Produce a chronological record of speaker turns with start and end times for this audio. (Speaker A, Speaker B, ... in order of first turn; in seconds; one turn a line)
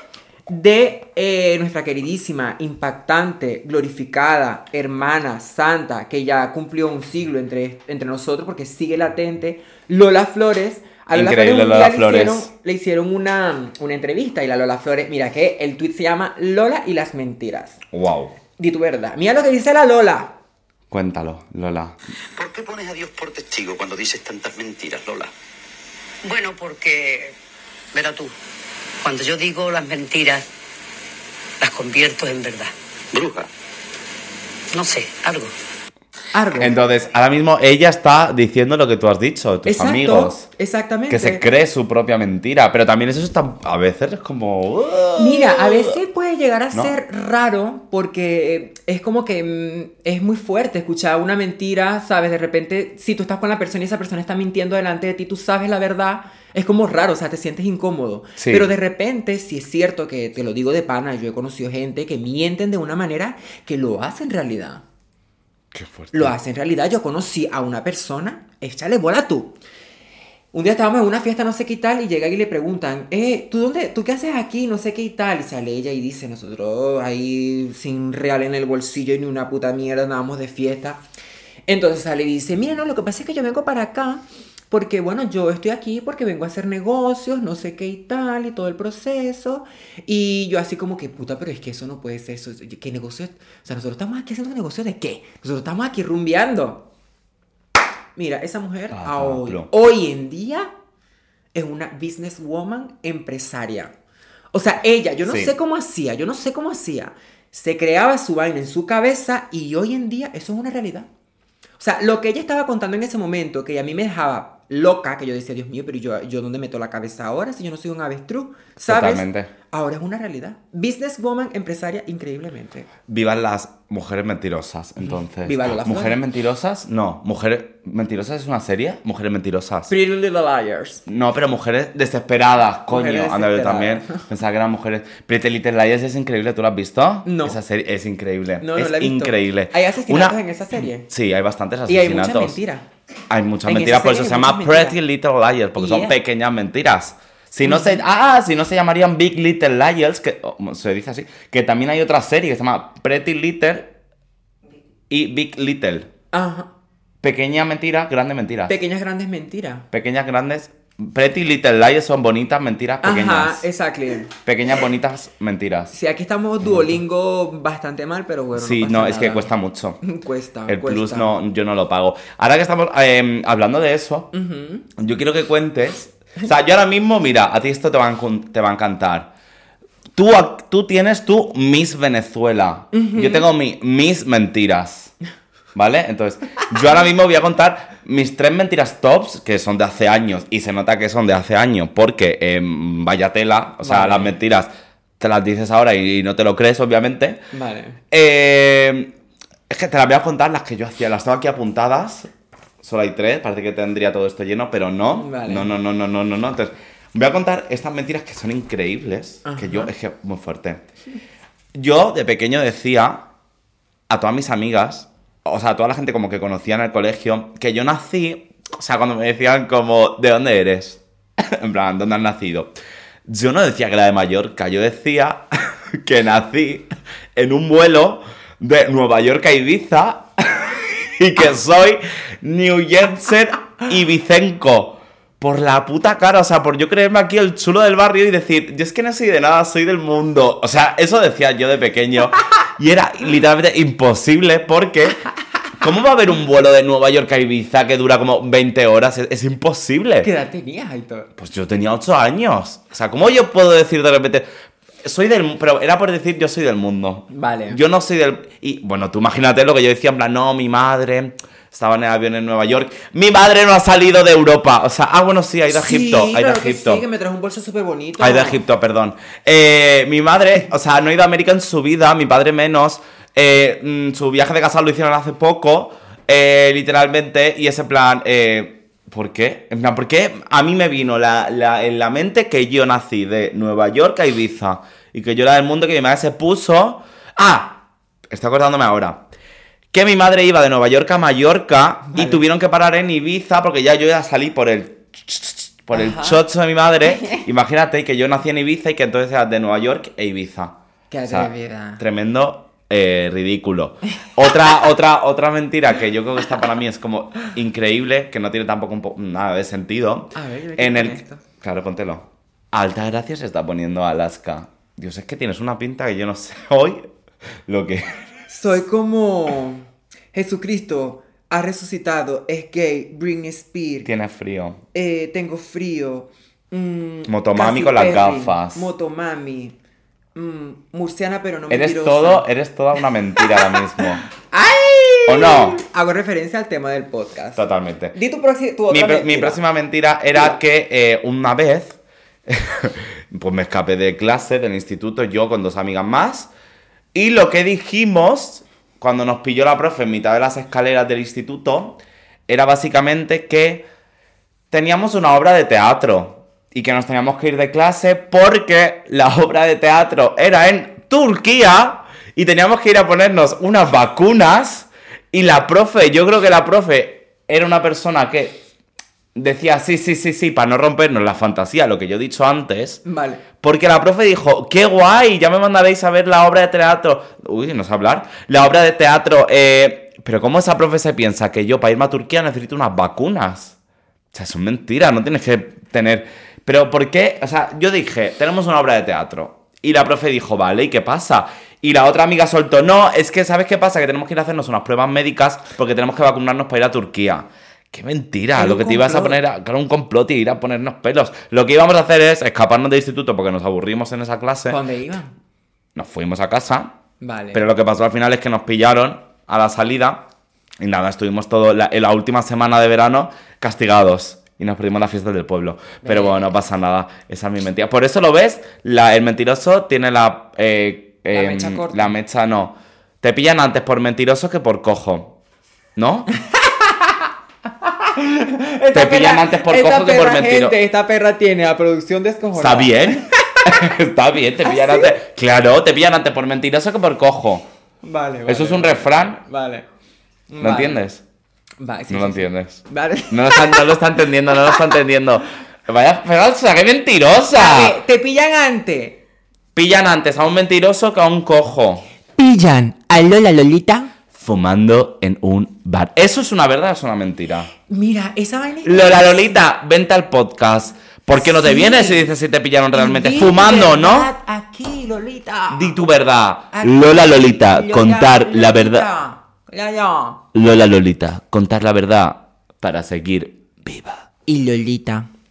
Speaker A: 0.5-17.8
Speaker B: 11.1-12.5
Speaker B: 17.9-18.3
Speaker A: 18.6-20.3
Speaker B: 20.9-21.9
Speaker C: 22.4-25.3
Speaker D: 26.2-27.3
Speaker D: 27.9-28.3
Speaker D: 29.0-30.4
Speaker D: 31.6-32.7
Speaker C: 33.1-33.5
Speaker D: 34.7-35.5
Speaker A: 36.3-36.8
Speaker B: 36.6-40.5
Speaker A: 39.6-41.4
Speaker B: 41.1-46.0
Speaker A: 45.1-64.8
Speaker B: 58.4-58.7
Speaker B: 65.7-66.3
Speaker A: 66.1-69.5
Speaker A: 70.5-81.0
Speaker A: 81.7-96.8
Speaker A: 98.1-100.7
Speaker B: 98.9-99.7
Speaker A: 101.5-103.9
Speaker A: 104.5-111.1
Speaker B: 105.3-105.5
Speaker A: 111.8-122.9
Speaker B: 118.9-119.5
Speaker B: 123.1-129.9
Speaker A: 125.4-126.2
Speaker A: 129.9-131.0
Speaker B: 131.1-140.4
Speaker A: 132.9-134.2
Speaker A: 137.2-137.6
Speaker A: 138.6-141.1
Speaker B: 141.0-142.6
Speaker A: 141.9-142.8
Speaker B: 143.3-153.9
Speaker A: 143.6-145.0
Speaker A: 145.8-146.2
Speaker A: 147.6-148.0
Speaker B: 155.1-156.1
Speaker A: 156.3-156.7
Speaker B: 157.2-158.8
Speaker A: 158.7-159.8
Speaker B: 159.9-163.6
Speaker A: 163.0-164.3
Speaker B: 164.4-165.9
Speaker A: 165.9-169.5
Speaker B: 166.6-166.9
Speaker B: 168.6-170.0
Speaker A: 170.0-171.3
Speaker B: 170.7-174.3
Speaker A: 174.3-174.8
Speaker B: 175.0-179.3
Speaker B: 180.2-185.1
Speaker A: 182.9-183.5
Speaker B: 185.7-197.4
Speaker A: 193.8-194.4
Speaker A: 197.5-198.0
Speaker B: 198.1-199.1
Speaker B: 199.7-202.3
Speaker B: 202.8-210.8
Speaker A: 205.1-205.7
Speaker A: 209.4-209.9
Speaker B: 211.7-213.2
Speaker B: 214.1-222.7
Speaker B: 223.3-225.4
Speaker B: 225.9-245.2
Speaker B: 245.8-250.3
Speaker A: 250.2-251.3
Speaker B: 251.4-254.5
Speaker B: 255.0-267.0
Speaker A: 257.3-257.8
Speaker A: 265.7-268.6
Speaker B: 268.2-289.2
Speaker B: 289.9-300.7
Speaker A: 292.1-292.4
Speaker A: 295.9-296.4
Speaker A: 301.1-302.0
Speaker B: 301.3-317.1
Speaker A: 310.3-311.4
Speaker B: 317.7-318.2
Speaker A: 318.5-324.1
Speaker B: 324.0-324.8
Speaker A: 324.9-329.7
Speaker B: 327.3-328.9
Speaker A: 330.3-332.4
Speaker B: 331.7-334.2
Speaker A: 334.5-337.6
Speaker B: 335.2-335.8
Speaker B: 337.5-338.1
Speaker A: 338.1-339.6
Speaker B: 338.9-346.5
Speaker B: 347.1-353.9
Speaker B: 354.7-368.6
Speaker B: 369.3-373.0
Speaker A: 373.1-373.4
Speaker B: 373.6-383.7
Speaker B: 384.3-404.8
Speaker A: 398.6-399.4
Speaker A: 404.7-405.3
Speaker B: 405.9-406.9
Speaker A: 407.2-407.6
Speaker B: 407.5-410.2
Speaker B: 410.8-425.3
Speaker A: 416.0-416.5
Speaker A: 421.3-422.2
Speaker B: 426.0-426.3
Speaker A: 426.4-427.3
Speaker A: 427.8-433.4
Speaker B: 428.9-430.8
Speaker B: 432.6-437.6
Speaker A: 434.6-435.1
Speaker A: 438.0-439.9
Speaker B: 438.5-439.4
Speaker A: 440.5-441.0
Speaker B: 440.6-441.2
Speaker A: 441.8-443.9
Speaker B: 442.1-447.9
Speaker A: 447.5-449.2
Speaker B: 449.7-452.0
Speaker A: 452.4-454.1
Speaker B: 454.3-457.7
Speaker A: 457.9-459.6
Speaker B: 458.8-464.3
Speaker A: 461.3-462.3
Speaker A: 462.9-466.0
Speaker B: 465.7-469.1
Speaker A: 466.7-470.4
Speaker B: 470.5-474.2
Speaker A: 474.4-475.3